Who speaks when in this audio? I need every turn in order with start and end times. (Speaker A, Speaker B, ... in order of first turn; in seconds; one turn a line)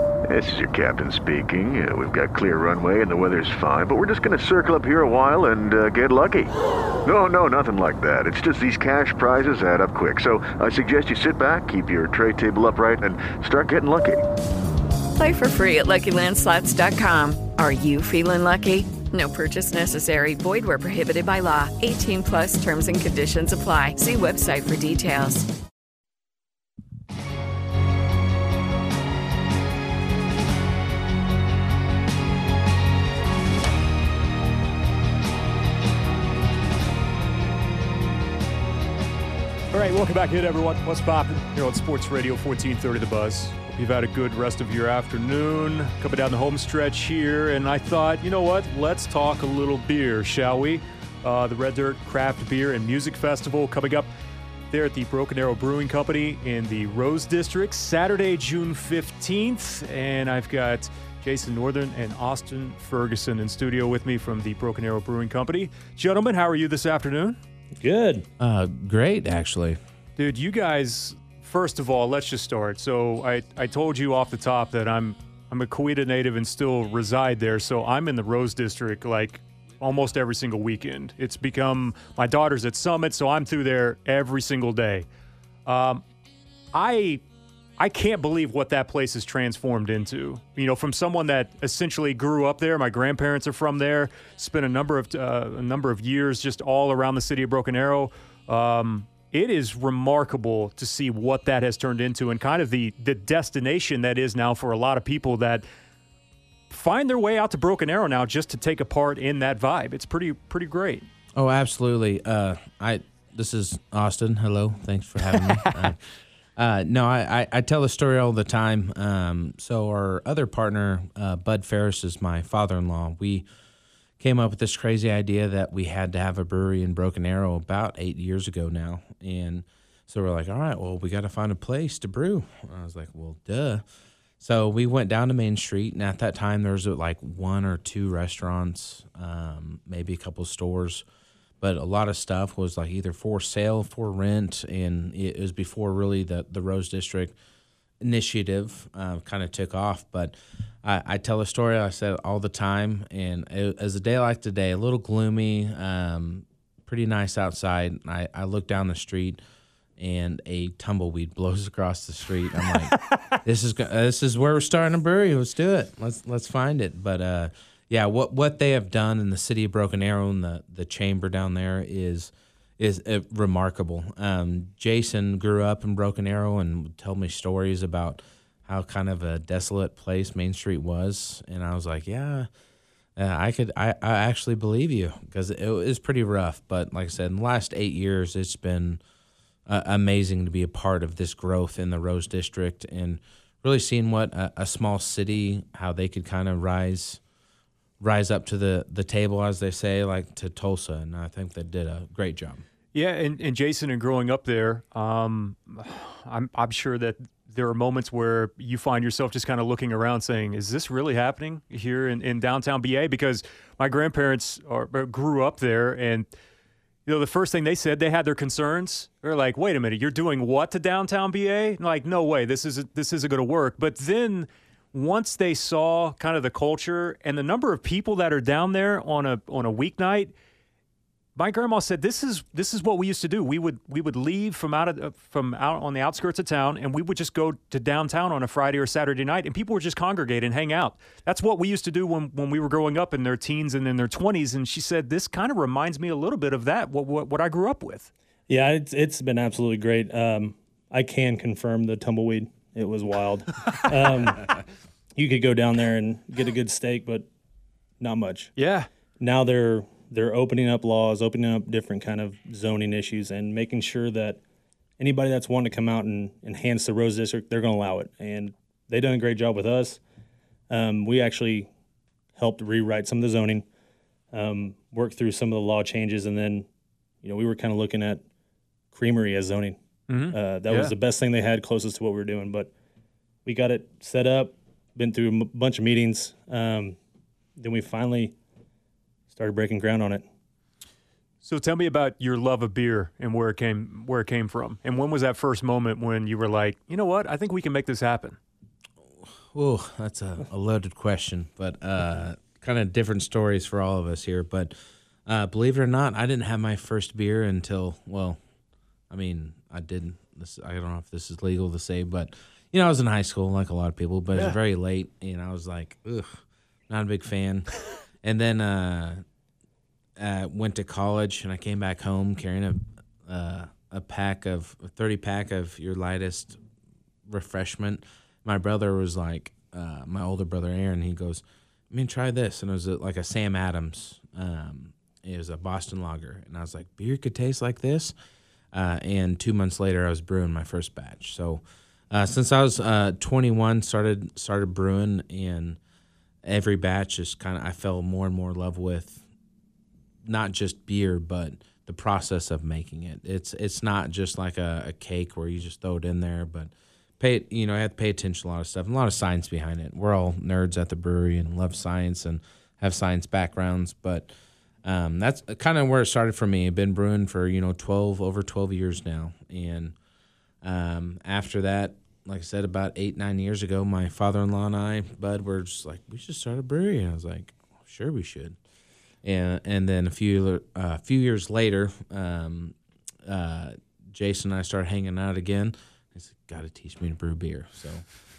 Speaker A: 0.3-6.5
Speaker A: 7.0-14.2
Speaker B: 15.2-25.5
Speaker C: 39.7-54.1
Speaker C: 54.7-67.4
Speaker D: 67.8-68.3
Speaker E: 68.4-69.8
Speaker C: 70.2-85.1
Speaker C: 85.7-86.0
Speaker C: 86.7-87.2
Speaker C: 87.8-105.7
Speaker C: 106.7-111.1
Speaker E: 111.4-116.0
Speaker C: 115.2-115.9
Speaker E: 116.6-123.5
Speaker E: 124.2-133.8
Speaker E: 134.4-141.0
Speaker E: 141.6-147.3
Speaker E: 148.0-159.4
Speaker E: 160.0-182.5
Speaker E: 183.2-189.0
Speaker E: 189.7-197.2
Speaker E: 198.0-202.6
Speaker C: 202.9-216.3
Speaker C: 217.1-230.3
Speaker C: 231.4-248.1
Speaker D: 248.5-254.6
Speaker D: 255.2-257.3
Speaker D: 258.0-258.5
Speaker C: 258.6-258.9
Speaker D: 259.2-264.4
Speaker D: 265.0-270.0
Speaker D: 270.7-271.7
Speaker D: 272.4-273.6
Speaker D: 274.3-276.7
Speaker D: 277.2-278.2
Speaker D: 278.9-279.8
Speaker C: 280.1-280.9
Speaker D: 280.3-282.7
Speaker D: 283.4-287.0
Speaker D: 287.6-288.4
Speaker D: 289.3-290.2
Speaker C: 291.4-298.4
Speaker E: 299.5-304.7
Speaker E: 305.3-308.4
Speaker E: 309.1-317.7
Speaker E: 318.2-319.2
Speaker E: 320.2-326.6
Speaker E: 327.3-338.1
Speaker E: 338.7-345.8
Speaker E: 346.4-349.2
Speaker E: 350.2-364.3
Speaker E: 364.8-369.9
Speaker E: 370.6-378.6
Speaker E: 379.2-388.0